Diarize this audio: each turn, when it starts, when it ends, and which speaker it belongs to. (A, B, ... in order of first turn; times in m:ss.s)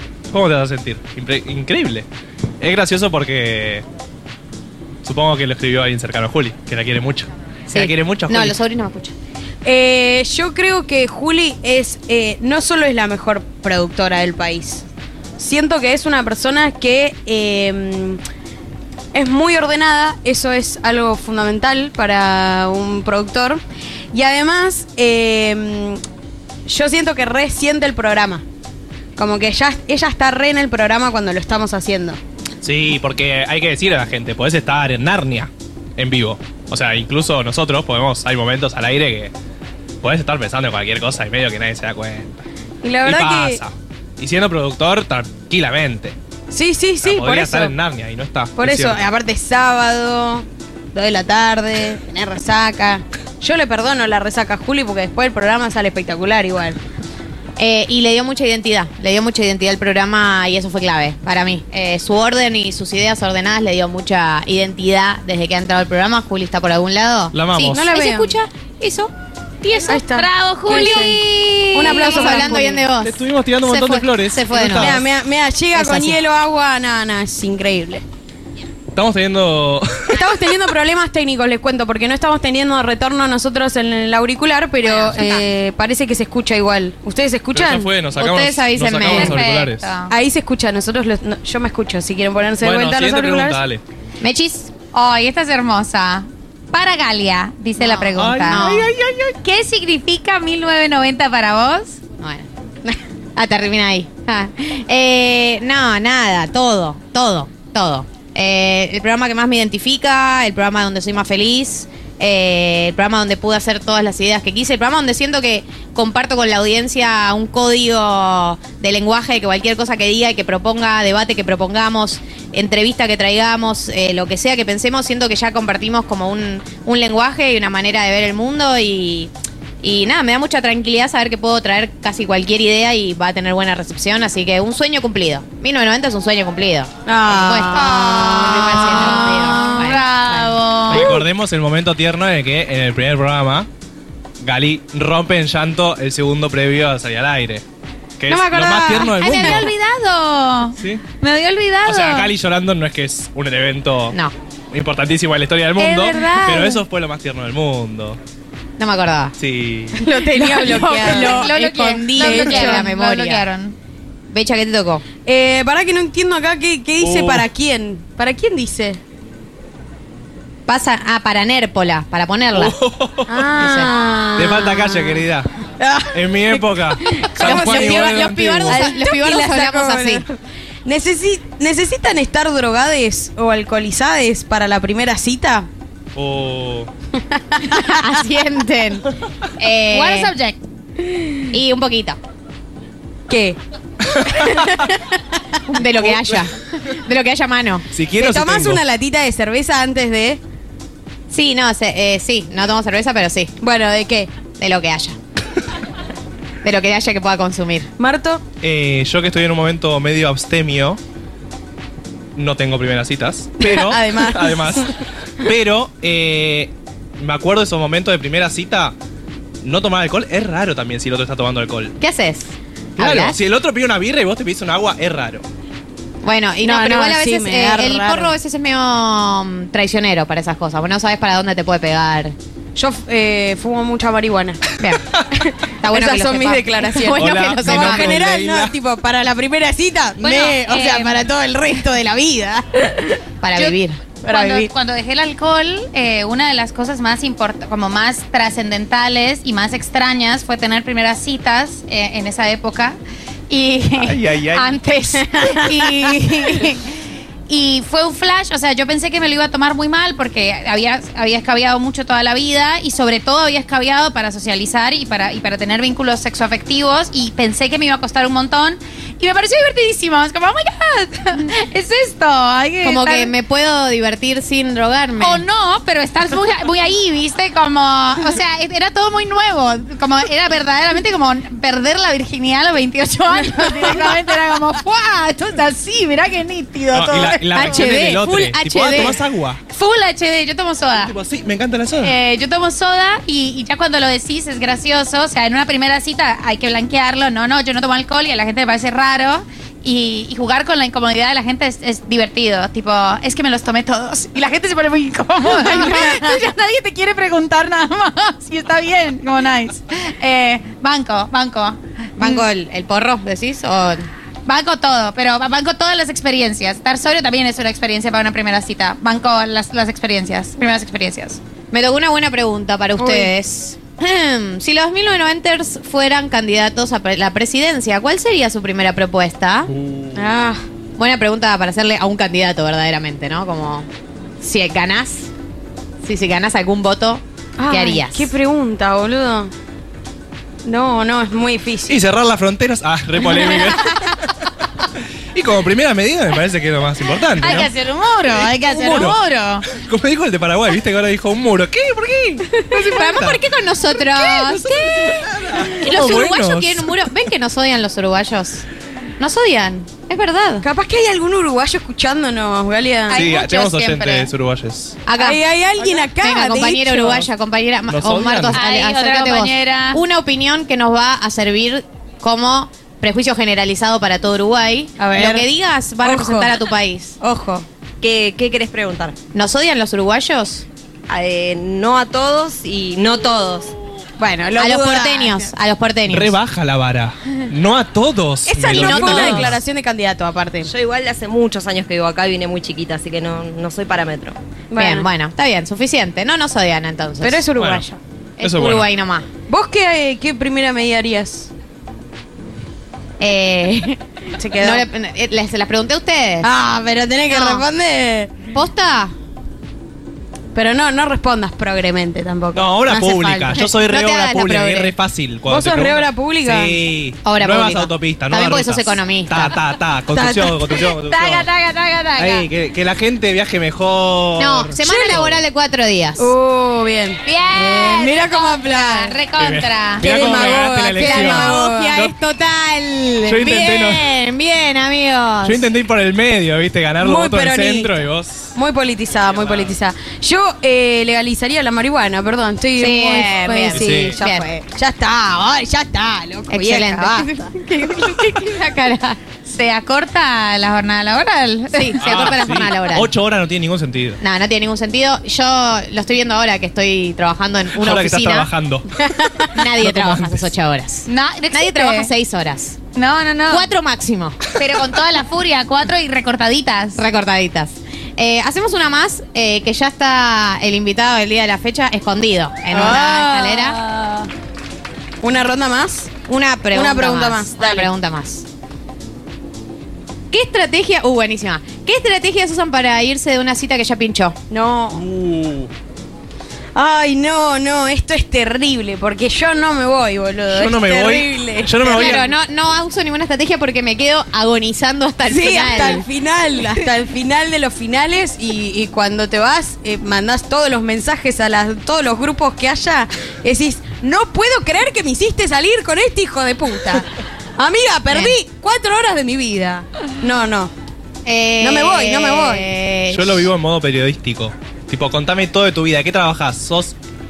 0:00.3-0:02.1 A
0:02.6-0:03.8 A
0:05.0-0:08.6 A
0:07.7-0:09.1 B
0:09.6-0:14.8 C
0:15.4-0:18.2 C
0:19.1-0:23.6 C
0:24.1-0:26.0 C
0:26.6-0:28.4 C
0:29.2-0:32.2 C
0:32.6-0:39.3 A
0:40.0-0:42.4 A
0:42.8-0:43.6 C
0:43.0-0:46.2 A
0:46.5-0:47.7 C
0:47.0-0:49.1 A
0:48.6-0:56.8 C
0:57.6-1:08.0 B
1:07.3-1:07.9 A
1:07.7-1:08.4 C
1:08.1-1:09.1 D
1:09.6-1:12.4 D
1:09.8-1:11.2 C
1:10.6-1:15.0 B
1:11.7-1:12.8 C
1:13.0-1:15.0 A
1:14.6-1:18.0 C
1:15.7-1:16.2 B
1:18.9-1:20.2 A
1:20.1-1:27.9 C
1:24.8-1:25.4 B
1:27.5-1:29.9 A
1:28.2-1:29.4 B
1:29.1-1:30.1 D
1:30.1-1:33.6 C
1:32.6-1:33.8 A
1:34.2-1:34.7 B
1:34.9-1:42.0 D
1:37.8-1:38.9 B
1:38.1-1:38.9 A
1:42.2-1:42.5 B
1:43.4-2:21.1 B
2:17.0-2:20.0 C
2:18.4-2:21.1 D
2:20.9-2:23.7 A
2:24.4-2:27.6 A
2:28.2-2:29.7 A
2:28.3-2:29.6 C
2:29.2-2:32.3 D
2:30.8-2:31.0 A
2:31.8-2:34.2 A
2:34.7-2:38.2 A
2:35.8-2:36.7 C
2:38.8-2:39.3 B
2:39.4-2:40.0 A
2:40.0-2:41.6 C
2:40.3-2:43.4 B
2:41.1-2:43.7 D
2:42.1-2:42.9 C
2:44.3-2:45.0 B
2:45.2-2:49.0 C
2:47.0-2:47.5 A
2:50.7-2:52.7 B
2:52.5-2:53.5 A
2:53.3-2:55.2 C
2:53.6-2:53.9 B
2:54.3-2:55.5 A
2:55.8-3:00.3 C
2:56.1-2:58.9 A
2:57.4-3:00.2 B
3:00.8-3:05.7 C
3:06.1-3:06.9 A
3:07.3-3:07.9 C
3:07.7-3:09.0 B
3:09.6-3:10.3 B
3:09.9-3:10.6 D
3:11.5-3:12.2 B
3:13.3-3:13.6 C
3:14.2-3:15.0 C
3:15.7-3:17.8 B
3:16.0-3:16.4 A
3:17.9-3:18.8 A
3:18.2-3:20.4 C
3:21.3-3:23.5 B
3:23.6-3:24.3 C
3:24.6-3:25.2 B
3:26.6-3:27.9 B
3:28.0-3:28.4 C
3:28.6-3:31.0 A
3:32.4-3:38.9 A
3:33.6-3:34.9 C
3:39.6-3:42.0 A
3:42.0-3:43.4 B
3:43.0-3:45.4 A
3:46.2-3:52.3 B
3:46.6-3:48.3 C
3:52.8-3:54.7 C
3:55.4-4:03.2 C
3:55.8-3:58.2 B
3:57.1-3:58.8 A
4:00.2-4:01.1 D
4:03.4-4:04.0 B
4:04.2-4:04.7 C
4:04.3-4:13.0 D
4:13.5-4:16.8 D
4:15.4-4:15.6 C
4:17.5-4:33.3 D
4:32.8-4:35.4 B
4:35.2-4:49.1 D
4:46.9-4:49.6 A
4:47.5-4:49.1 B
4:49.7-4:51.1 D
4:51.0-4:52.1 A
4:52.0-5:11.8 D
5:05.6-5:06.3 B
5:12.2-5:14.1 B
5:14.4-5:21.4 D
5:21.7-5:29.7 B
5:23.0-5:23.3 C
5:30.1-5:30.6 C
5:31.0-5:33.9 B
5:34.4-5:35.3 B
5:36.0-5:38.3 B
5:37.6-5:39.5 C
5:40.6-5:42.0 C
5:41.9-5:44.1 A
5:43.4-5:43.8 C
5:45.3-5:47.7 A
5:47.4-5:49.6 D
5:48.4-5:53.4 A
5:52.8-5:58.6 B
5:54.2-5:56.9 A
5:59.2-6:00.6 B
6:00.6-6:03.3 C
6:03.1-6:05.0 A
6:03.1-6:04.3 D
6:05.0-6:17.2 B
6:05.2-6:07.3 C
6:07.9-6:08.6 A
6:08.5-6:10.0 D
6:15.0-6:15.5 C
6:16.0-6:16.6 C
6:17.2-6:17.6 C
6:18.0-6:19.1 E
6:19.3-6:20.6 B
6:21.1-6:23.7 E
6:24.2-6:25.5 C
6:24.6-6:26.3 B
6:26.1-6:29.6 A
6:28.5-6:30.7 C
6:28.8-6:29.4 B
6:30.6-6:34.4 E
6:34.7-6:35.1 C
6:34.8-6:37.4 B
6:37.2-6:38.0 C
6:37.6-6:37.8 A
6:38.4-6:39.3 B
6:38.4-6:38.9 A
6:39.5-6:41.5 C
6:43.2-6:44.0 B
6:44.4-6:44.8 C
6:44.6-6:46.5 B
6:46.4-6:48.3 C
6:47.3-6:47.6 B
6:48.5-6:49.1 B
6:50.5-6:53.6 C
6:52.5-7:01.5 A
6:53.6-6:54.9 B
6:55.4-6:56.8 C
6:57.2-6:59.6 B
7:00.1-7:00.8 C
7:01.2-7:02.2 D
7:02.2-7:05.4 A
7:04.4-7:06.3 B
7:04.8-7:05.4 C
7:06.2-7:09.2 C
7:07.3-7:10.0 D
7:09.4-7:12.1 A
7:10.0-7:12.0 C
7:10.9-7:15.6 B
7:13.2-7:14.1 A
7:15.4-7:18.5 A
7:17.0-7:17.9 C
7:18.5-7:27.5 C
7:19.3-7:19.7 A
7:22.8-7:24.6 B
7:23.7-7:24.2 A
7:26.5-7:29.2 B
7:29.5-7:32.3 D
7:31.7-7:33.1 B
7:32.0-7:34.2 A
7:34.2-7:38.5 B
7:37.7-7:38.9 A
7:39.4-7:42.8 B
7:39.6-7:40.5 A
7:41.1-7:42.1 D
7:42.9-7:43.7 D
7:43.5-7:44.4 B
7:44.6-7:47.0 D
7:47.0-7:53.8 B
7:52.7-7:54.3 C
7:55.2-7:56.1 C
7:56.3-7:58.4 B
7:56.7-7:57.9 C
8:00.3-8:04.4 B
8:04.5-8:05.0 C
8:04.9-8:05.7 A
8:06.7-8:12.3 C
8:10.5-8:12.2 A
8:11.8-8:16.0 B
8:15.2-8:30.7 C
8:28.1-8:28.4 B
8:31.2-8:33.5 B
8:31.6-8:32.6 C
8:33.1-8:37.0 A